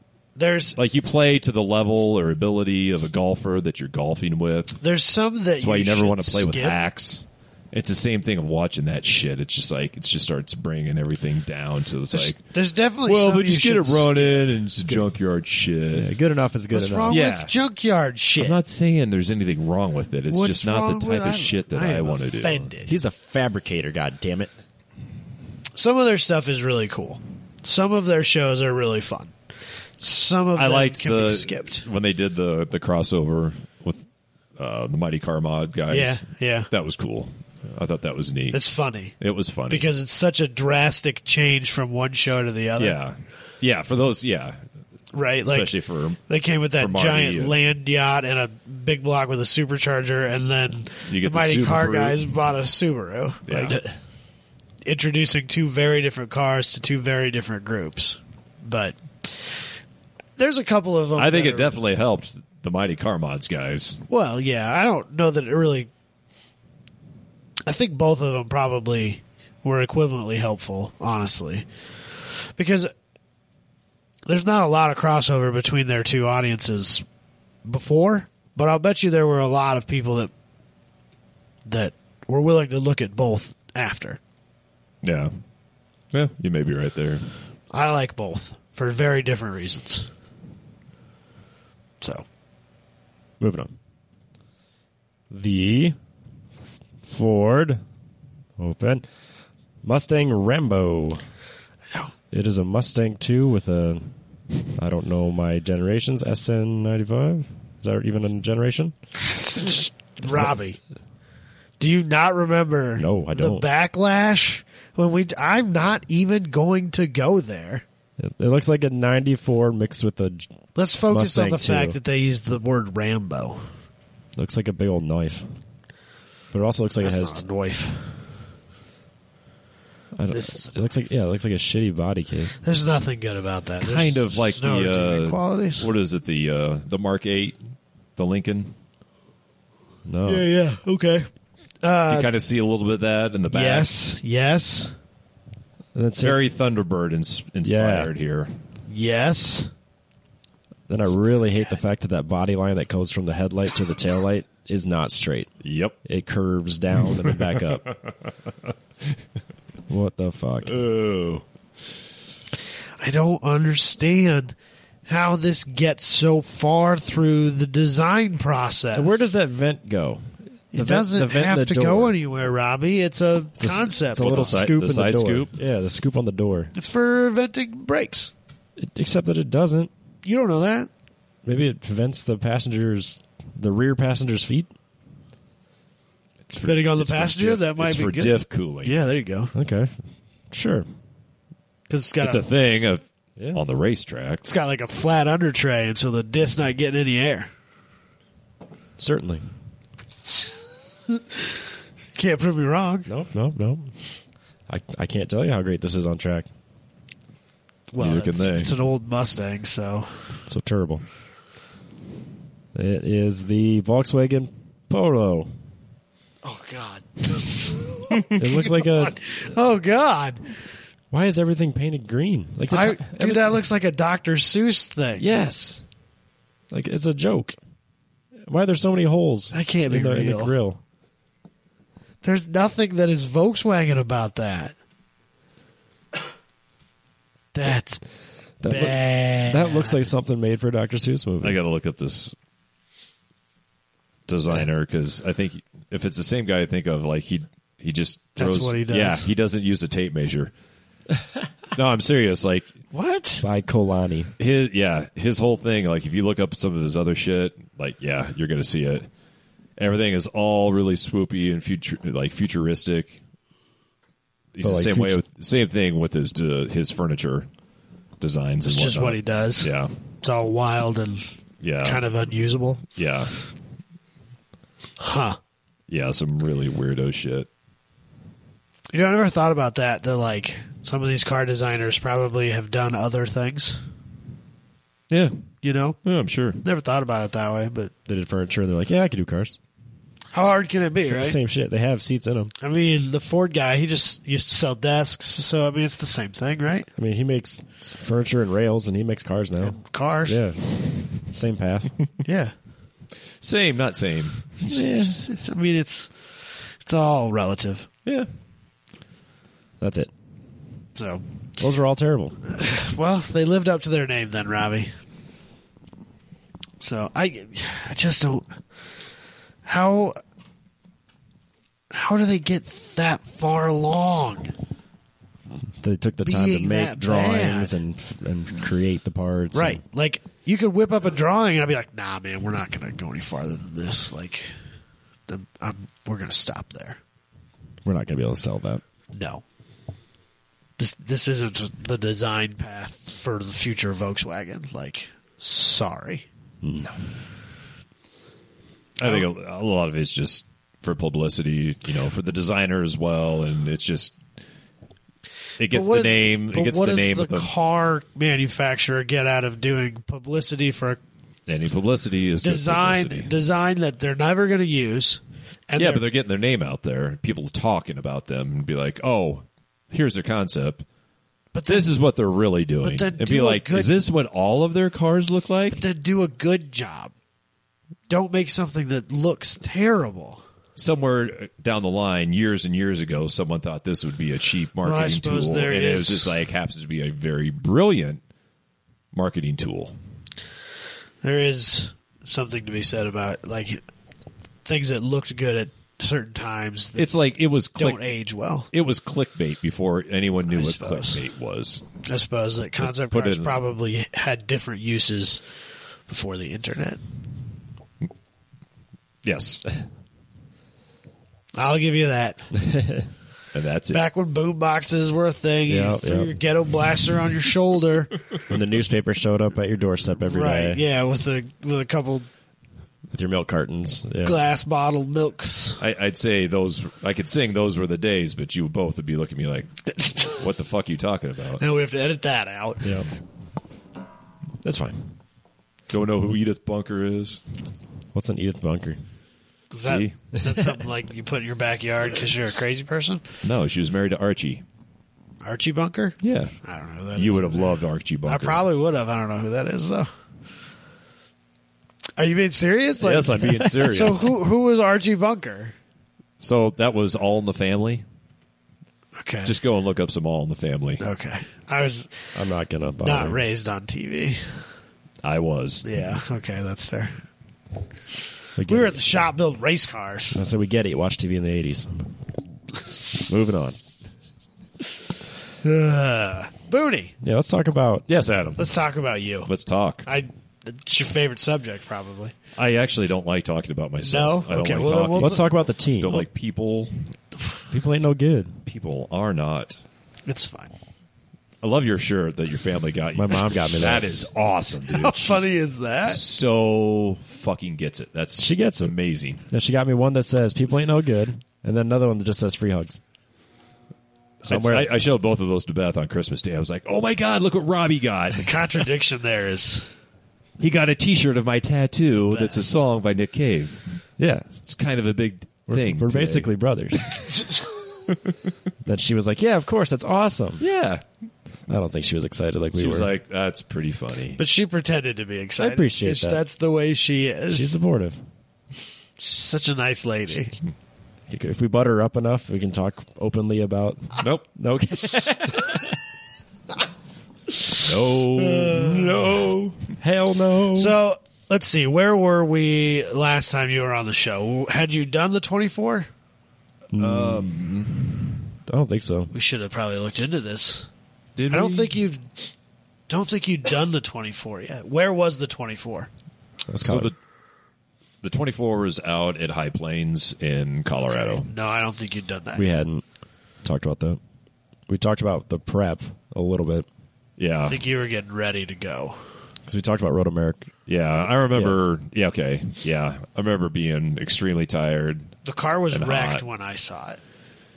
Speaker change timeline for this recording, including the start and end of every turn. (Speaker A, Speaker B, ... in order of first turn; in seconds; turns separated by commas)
Speaker A: 0.3-0.8, Speaker B: 0.8-4.8, Speaker A: 4.8-6.8, Speaker B: 5.6-12.4, Speaker A: 12.1-15.0, Speaker B: 13.0-16.1, Speaker C: 15.9-17.2, Speaker A: 16.7-18.6, Speaker B: 17.1-17.5, Speaker B: 18.4-22.7, Speaker A: 20.3-22.9, Speaker C: 22.9-24.5, Speaker A: 25.7-29.3, Speaker A: 30.0-31.8, Speaker B: 30.5-34.0, Speaker B: 34.6-38.6, Speaker A: 35.9-36.7, Speaker A: 38.5-39.1, Speaker B: 39.2-39.9, Speaker A: 39.7-43.0, Speaker B: 42.8-44.6, Speaker A: 45.1-45.7, Speaker B: 45.4-46.2, Speaker A: 46.3-53.8, Speaker B: 46.8-47.6, Speaker B: 51.1-52.2, Speaker B: 53.5-53.8, Speaker A: 54.8-59.6, Speaker A: 60.4-61.8, Speaker B: 61.1-64.0, Speaker A: 64.1-65.9, Speaker A: 67.7-71.7, Speaker A: 72.5-72.9, Speaker A: 74.2-77.0, Speaker A: 77.6-80.3, Speaker A: 81.6-84.2, Speaker B: 85.0-85.3, Speaker B: 86.1-87.2, Speaker A: 87.7-90.1, Speaker C: 93.4-93.7, Speaker C: 95.3-96.0, Speaker C: 97.0-97.8, Speaker C: 98.6-99.1, Speaker C: 99.8-101.2, Speaker C: 102.3-104.1, Speaker C: 104.7-108.9, Speaker A: 109.2-110.8, Speaker A: 111.8-117.8, Speaker C: 113.0-113.7, Speaker C: 118.2-120.5, Speaker A: 120.7-123.7, Speaker C: 121.1-122.0, Speaker C: 124.3-125.5, Speaker C: 126.5-127.4, Speaker A: 127.0-128.2, Speaker C: 130.1-132.6, Speaker A: 130.3-130.9, Speaker A: 132.6-135.9, Speaker B: 133.8-137.6, Speaker B: 138.2-138.7, Speaker C: 140.0-140.4, Speaker A: 140.2-141.3, Speaker A: 141.8-142.3, Speaker B: 142.1-143.9, Speaker A: 143.5-144.9, Speaker C: 145.9-146.4, Speaker B: 146.2-148.5, Speaker C: 147.6-148.1, Speaker A: 148.9-149.7, Speaker C: 150.9-155.5, Speaker B: 155.6-156.0, Speaker C: 156.0-157.8, Speaker B: 157.2-158.3, Speaker C: 159.9-160.8, Speaker B: 160.7-161.4, Speaker A: 163.0-164.5, Speaker A: 165.1-169.3, Speaker C: 168.9-172.2, Speaker A: 170.7-174.7, Speaker C: 173.6-176.7, Speaker B: 174.2-175.6, Speaker A: 176.7-178.3, Speaker C: 178.8-179.9, Speaker A: 180.2-180.9, Speaker C: 181.4-184.7, Speaker B: 186.5-188.9, Speaker A: 186.6-189.5, Speaker C: 189.5-189.9, Speaker C: 190.5-190.9, Speaker A: 191.9-192.4, Speaker B: 192.2-194.4, Speaker C: 193.4-193.6, Speaker A: 194.4-197.5, Speaker C: 199.0-199.5, Speaker A: 202.1-203.1, Speaker C: 203.1-203.9, Speaker C: 204.7-206.5, Speaker A: 207.9-210.3, Speaker B: 208.0-208.7, Speaker C: 210.5-211.0, Speaker C: 212.7-215.5, Speaker A: 216.4-220.5, Speaker C: 218.3-219.2, Speaker C: 221.1-223.6, Speaker A: 222.7-225.3, Speaker C: 225.2-225.8, Speaker C: 226.7-227.6, Speaker C: 228.4-230.8, Speaker A: 229.5-230.5, Speaker A: 232.2-234.7, Speaker A: 237.5-238.0, Speaker C: 238.6-241.6, Speaker A: 238.6-240.0, Speaker B: 241.4-242.3, Speaker B: 244.3-250.5, Speaker A: 248.4-249.3, Speaker B: 251.7-252.7, Speaker A: 252.9-253.4, Speaker C: 253.4-254.3, Speaker B: 254.4-259.1, Speaker B: 259.8-263.2, Speaker B: 264.5-267.5, Speaker C: 264.6-265.2, Speaker B: 268.2-269.9, Speaker A: 268.6-269.7, Speaker A: 270.2-271.3, Speaker B: 271.6-272.0, Speaker A: 271.8-272.8, Speaker B: 272.9-273.4, Speaker A: 275.0-275.4, Speaker B: 275.9-277.5, Speaker A: 278.9-283.8, Speaker B: 285.1-285.4, Speaker A: 285.6-286.0, Speaker B: 286.0-286.6, Speaker A: 286.6-287.9, Speaker C: 288.1-289.6, Speaker A: 290.3-291.4, Speaker C: 291.0-292.5, Speaker A: 292.6-296.9, Speaker C: 296.9-301.9, Speaker A: 299.6-300.4, Speaker A: 302.2-302.5, Speaker B: 303.4-304.8, Speaker A: 304.7-307.9, Speaker C: 304.7-305.3, Speaker C: 309.8-310.1, Speaker A: 310.9-311.2, Speaker C: 311.6-312.4, Speaker A: 312.5-314.9, Speaker A: 316.8-318.5, Speaker A: 319.6-320.2, Speaker A: 321.9-324.5, Speaker C: 325.8-329.8, Speaker A: 326.2-327.7, Speaker A: 329.5-334.5, Speaker A: 335.3-337.0, Speaker C: 337.8-338.8, Speaker A: 339.1-339.4, Speaker A: 340.8-346.2, Speaker C: 346.6-346.9, Speaker B: 349.0-354.2, Speaker A: 349.0-349.3, Speaker B: 355.6-357.5, Speaker A: 355.7-361.0, Speaker B: 361.5-363.3, Speaker A: 362.4-366.0, Speaker B: 365.8-370.8, Speaker A: 371.5-371.9, Speaker B: 371.7-375.8, Speaker A: 372.8-373.9, Speaker A: 375.7-377.1, Speaker A: 378.1-380.4, Speaker B: 380.8-388.2, Speaker A: 384.8-386.3, Speaker B: 389.1-389.9, Speaker A: 391.2-393.8, Speaker A: 394.6-397.1, Speaker B: 397.0-398.1, Speaker A: 397.7-398.7, Speaker B: 398.7-401.9, Speaker A: 400.4-401.2, Speaker A: 402.0-405.4, Speaker B: 402.8-403.6, Speaker A: 406.1-407.0, Speaker B: 409.2-409.8, Speaker A: 411.6-412.5, Speaker C: 412.8-413.0, Speaker B: 413.5-414.0, Speaker A: 413.9-418.1, Speaker C: 415.7-416.3, Speaker C: 418.5-420.8, Speaker A: 420.2-422.3, Speaker C: 423.1-424.4, Speaker A: 424.2-425.8, Speaker B: 425.8-431.6, Speaker A: 429.9-430.4, Speaker A: 431.6-433.1, Speaker C: 432.8-433.1, Speaker C: 434.6-435.1, Speaker B: 435.9-437.4, Speaker C: 438.1-439.0, Speaker A: 439.7-443.2, Speaker B: 439.8-440.1, Speaker B: 443.4-444.6, Speaker A: 445.4-450.1, Speaker B: 446.2-446.6, Speaker B: 447.1-448.6, Speaker A: 452.2-455.7, Speaker B: 453.0-454.4, Speaker B: 456.4-458.0, Speaker A: 459.2-459.5, Speaker B: 459.4-461.0, Speaker A: 461.0-462.3, Speaker C: 462.3-463.4, Speaker A: 463.0-464.6, Speaker B: 465.2-465.9, Speaker A: 465.8-467.1, Speaker C: 468.6-469.2, Speaker A: 468.7-470.4, Speaker C: 470.3-472.1, Speaker C: 473.3-473.8, Speaker A: 475.6-477.1, Speaker C: 477.2-478.1, Speaker B: 478.1-478.8, Speaker A: 478.6-479.5, Speaker B: 479.4-480.1, Speaker A: 480.1-482.3, Speaker B: 482.6-487.1, Speaker A: 484.0-485.5, Speaker C: 485.1-486.2, Speaker C: 487.7-488.6, Speaker B: 488.6-489.8, Speaker A: 490.2-490.7, Speaker B: 491.6-495.4, Speaker C: 493.1-494.1, Speaker A: 494.9-496.2, Speaker B: 496.0-499.4, Speaker C: 498.4-498.9, Speaker C: 499.5-503.0, Speaker B: 504.4-508.8, Speaker C: 504.4-504.9, Speaker A: 508.3-509.9, Speaker B: 510.6-513.8, Speaker A: 512.3-512.7, Speaker C: 514.2-514.5, Speaker B: 514.5-516.5, Speaker C: 515.7-517.1, Speaker B: 518.1-518.3, Speaker C: 518.8-520.6, Speaker B: 520.6-521.0, Speaker C: 521.7-523.1, Speaker B: 522.7-524.4, Speaker A: 524.4-527.7, Speaker C: 525.6-526.4, Speaker C: 527.5-528.2, Speaker A: 529.2-530.6, Speaker C: 531.3-535.8, Speaker B: 534.2-534.5, Speaker B: 537.7-539.0, Speaker A: 538.4-539.3, Speaker C: 538.6-541.0, Speaker A: 540.7-546.1, Speaker C: 546.9-547.6, Speaker B: 546.9-548.2, Speaker C: 548.7-549.3, Speaker A: 549.3-550.9, Speaker B: 551.4-552.0, Speaker A: 551.5-552.3, Speaker A: 553.1-556.1, Speaker C: 556.7-557.1, Speaker B: 556.8-557.1, Speaker B: 558.2-561.5, Speaker A: 561.2-562.6, Speaker C: 562.5-563.0, Speaker C: 563.6-564.2, Speaker C: 564.9-566.9, Speaker B: 567.4-567.8, Speaker A: 567.6-569.2, Speaker C: 569.7-570.7, Speaker B: 570.9-575.4, Speaker C: 571.5-571.8, Speaker A: 575.4-577.2, Speaker B: 575.9-576.4